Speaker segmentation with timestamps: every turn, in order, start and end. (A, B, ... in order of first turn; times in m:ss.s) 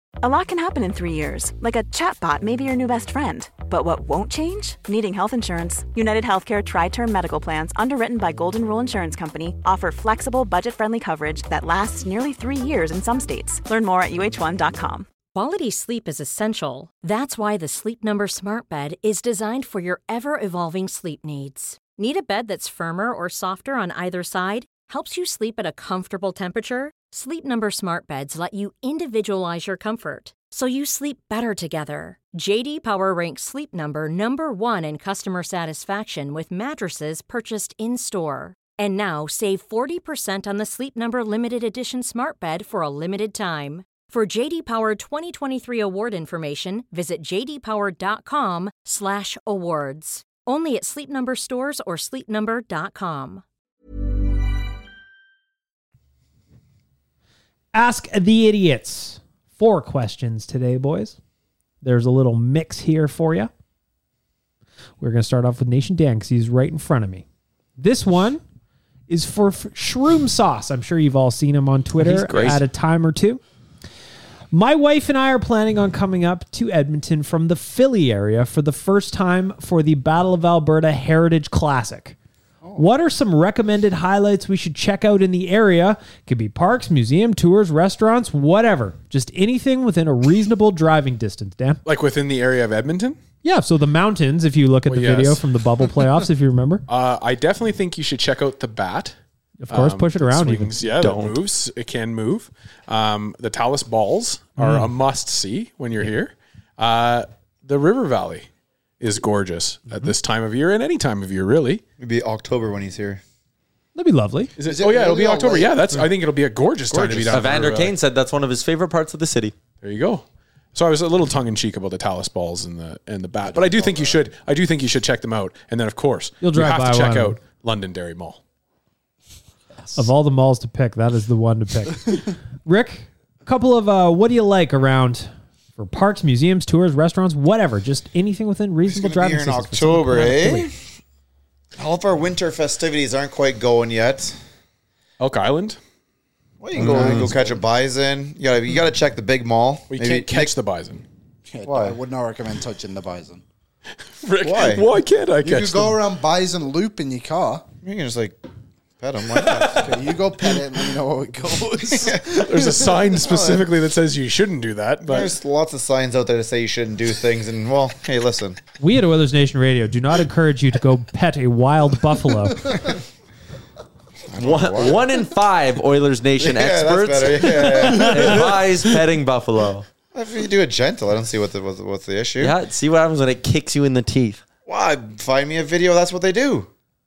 0:00.2-0:15.1 A
0:15.3-0:53.4 B
0:57.7-1:01.2 C
1:01.8-1:03.5 C
1:05.0-1:07.2 C
1:07.8-1:08.4 C
1:09.1-1:13.4 C
1:12.0-1:12.6 D
1:14.5-1:22.2 C
1:22.8-1:31.8 C
1:31.8-1:33.2 E
1:33.4-1:36.8 C
1:34.9-1:35.4 E
1:36.9-1:39.1 E
1:39.6-1:40.8 C
1:39.7-1:48.5 E
1:41.0-1:41.4 D
1:44.6-1:44.9 C
1:49.0-1:51.8 E
1:52.0-1:53.2 F
1:53.9-1:54.5 C
1:54.6-1:57.9 E
1:54.6-1:56.1 G
1:56.9-1:57.4 F
1:57.3-1:59.5 D
1:59.8-2:08.4 E
2:03.5-2:04.2 G
2:06.4-2:07.4 C
2:09.9-2:20.7 C
2:18.9-2:20.7 F
2:21.8-2:24.4 F
2:25.2-2:25.8 E
2:26.6-2:30.5 F
2:26.8-2:27.3 E
2:26.8-2:27.3 G
2:29.9-2:31.0 E
2:31.5-2:33.4 G
2:31.6-2:32.0 F
2:34.2-2:36.0 E
2:34.4-2:34.8 F
2:35.4-2:37.6 G
2:37.8-2:38.4 F
2:39.0-2:40.0 F
2:39.7-2:43.2 G
2:42.0-2:42.4 F
2:42.4-2:45.3 E
2:43.2-2:43.7 F
2:45.1-2:48.6 F
2:48.8-2:52.9 C
2:54.3-2:55.0 F
2:54.4-2:59.8 D
2:56.4-2:58.5 F
3:00.1-3:02.5 F
3:02.4-3:04.4 D
3:04.6-3:06.7 F